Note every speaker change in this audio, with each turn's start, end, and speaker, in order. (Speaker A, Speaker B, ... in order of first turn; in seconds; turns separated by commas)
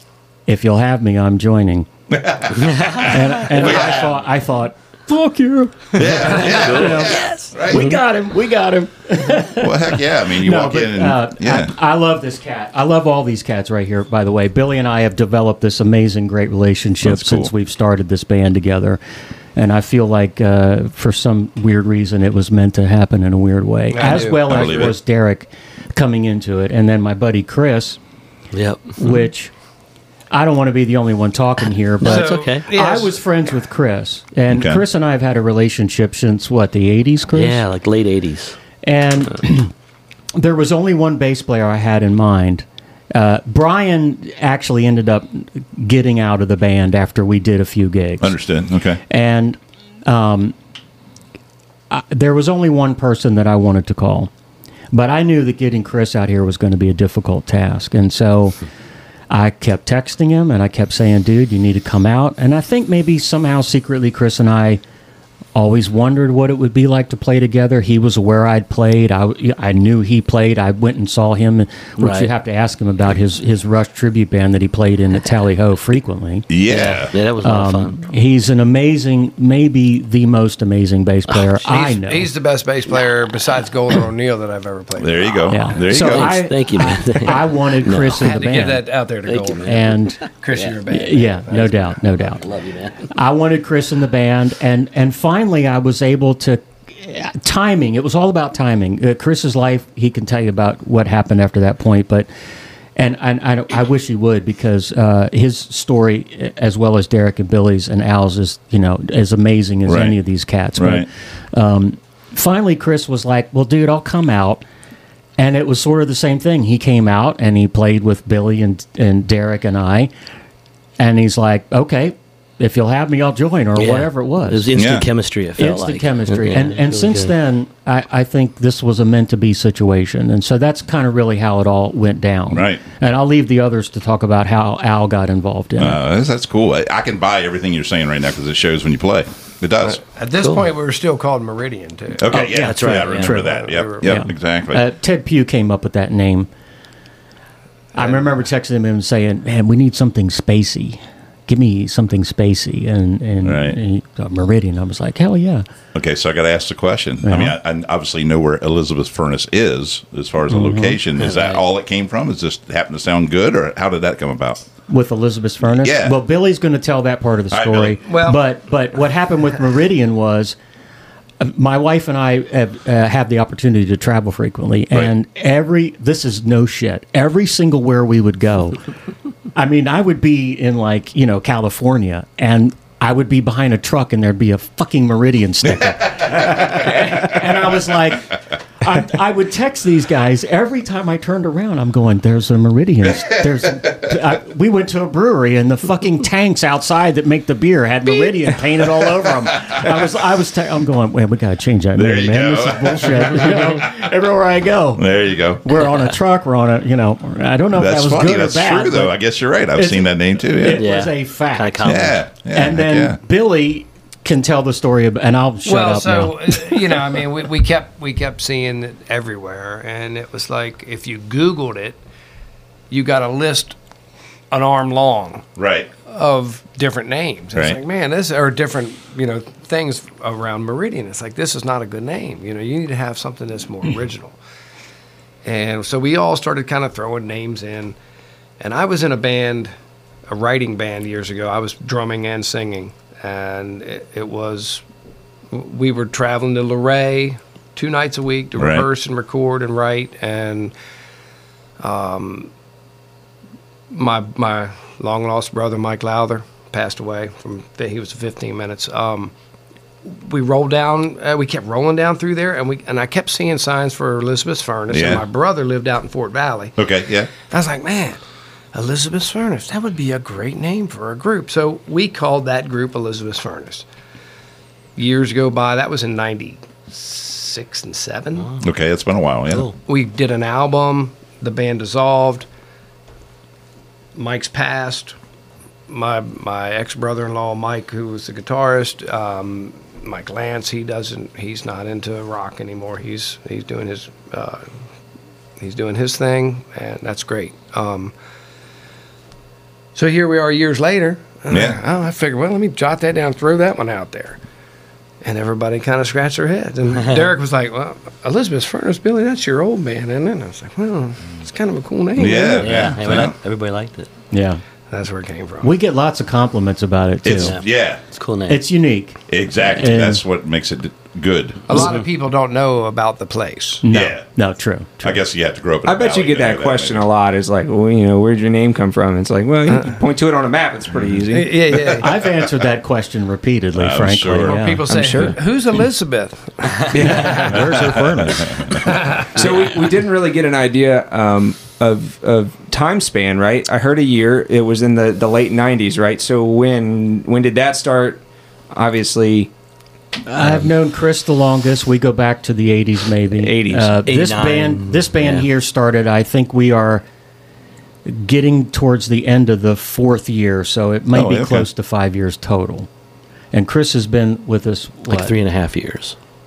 Speaker A: 0.5-1.9, Speaker B: 2.1-4.1, Speaker A: 2.9-19.0, Speaker B: 5.9-7.9, Speaker C: 6.4-7.8, Speaker B: 9.6-11.7, Speaker B: 17.0-17.5, Speaker A: 19.6-28.0, Speaker D: 23.9-24.9, Speaker B: 24.1-24.9, Speaker C: 28.5-29.2, Speaker A: 29.0-29.5, Speaker A: 30.3-37.6, Speaker D: 32.0-33.1, Speaker C: 32.0-32.6, Speaker B: 34.5-34.8, Speaker C: 37.3-38.6, Speaker A: 38.8-39.7, Speaker A: 40.4-48.4, Speaker B: 48.2-49.0, Speaker A: 49.1-50.5, Speaker A: 51.9-54.3, Speaker A: 54.9-58.6, Speaker A: 59.3-64.8, Speaker A: 65.5-76.5, Speaker C: 72.0-72.3, Speaker B: 76.5-77.1, Speaker C: 76.7-78.0, Speaker A: 77.4-82.3, Speaker D: 81.6-85.5, Speaker B: 85.0-86.4, Speaker A: 85.5-88.8, Speaker C: 85.9-90.8, Speaker D: 88.2-91.9, Speaker A: 89.6-90.2, Speaker A: 90.9-92.4, Speaker C: 92.2-93.1, Speaker A: 93.1-102.3, Speaker A: 103.0-114.6, Speaker B: 109.9-110.2, Speaker B: 110.8-111.1, Speaker A: 115.4-120.1, Speaker A: 121.0-124.7, Speaker C: 123.8-127.3, Speaker B: 124.8-125.1, Speaker A: 125.6-136.0, Speaker B: 132.5-132.8, Speaker B: 135.8-140.0, Speaker D: 139.8-142.4, Speaker C: 140.4-140.7, Speaker B: 142.2-144.9, Speaker A: 142.3-146.5, Speaker C: 142.4-143.5, Speaker D: 143.3-144.2, Speaker A: 147.9-155.6, Speaker D: 148.0-148.3, Speaker B: 153.4-153.8, Speaker B: 155.9-164.7, Speaker A: 157.2-157.6, Speaker A: 160.5-161.0, Speaker C: 161.2-161.6, Speaker A: 164.9-170.6, Speaker B: 165.6-166.2, Speaker B: 167.5-168.0, Speaker D: 168.1-168.4, Speaker A: 171.4-178.8, Speaker A: 179.5-205.1, Speaker B: 201.9-204.1, Speaker B: 204.9-205.6, Speaker A: 205.6-209.2, Speaker B: 207.8-210.9, Speaker A: 209.7-216.8, Speaker C: 210.7-212.2, Speaker B: 211.8-213.2, Speaker D: 215.6-222.0, Speaker D: 222.9-223.8, Speaker D: 224.5-225.4, Speaker B: 225.6-225.9, Speaker D: 226.1-234.4, Speaker B: 227.5-227.8, Speaker D: 235.4-237.9, Speaker D: 238.6-239.7, Speaker D: 240.3-244.8, Speaker D: 245.5-250.7, Speaker B: 248.6-248.9, Speaker D: 251.8-252.5, Speaker D: 253.9-259.3, Speaker D: 260.1-266.8, Speaker B: 264.9-265.2, Speaker B: 266.8-267.3, Speaker D: 267.4-268.2, Speaker D: 268.7-273.9, Speaker D: 274.9-278.5, Speaker B: 278.6-279.7, Speaker D: 279.9-282.5, Speaker D: 284.1-285.1, Speaker D: 285.9-294.6, Speaker D: 295.6-298.1, Speaker D: 299.9-304.4, Speaker B: 301.5-301.8, Speaker D: 305.2-312.9, Speaker B: 312.1-313.4, Speaker C: 312.6-314.1, Speaker A: 314.3-314.6, Speaker D: 314.9-315.7, Speaker A: 315.6-317.6, Speaker B: 317.2-318.0, Speaker C: 317.3-318.6, Speaker A: 318.5-320.2, Speaker B: 319.3-321.9, Speaker D: 321.7-323.8, Speaker A: 323.8-325.2, Speaker B: 323.9-324.2, Speaker B: 325.0-327.0, Speaker E: 325.9-331.8, Speaker D: 329.7-329.9, Speaker D: 331.3-332.1, Speaker A: 331.9-335.4, Speaker B: 333.7-334.6, Speaker D: 334.4-337.7, Speaker A: 336.9-338.5, Speaker C: 337.1-337.4, Speaker B: 337.5-339.0, Speaker D: 338.6-339.4, Speaker E: 339.3-348.2, Speaker E: 348.7-349.5, Speaker A: 350.2-357.0, Speaker E: 353.4-353.9, Speaker C: 354.1-355.5, Speaker A: 358.1-362.9, Speaker B: 361.1-361.7, Speaker A: 363.5-365.3, Speaker C: 365.1-366.1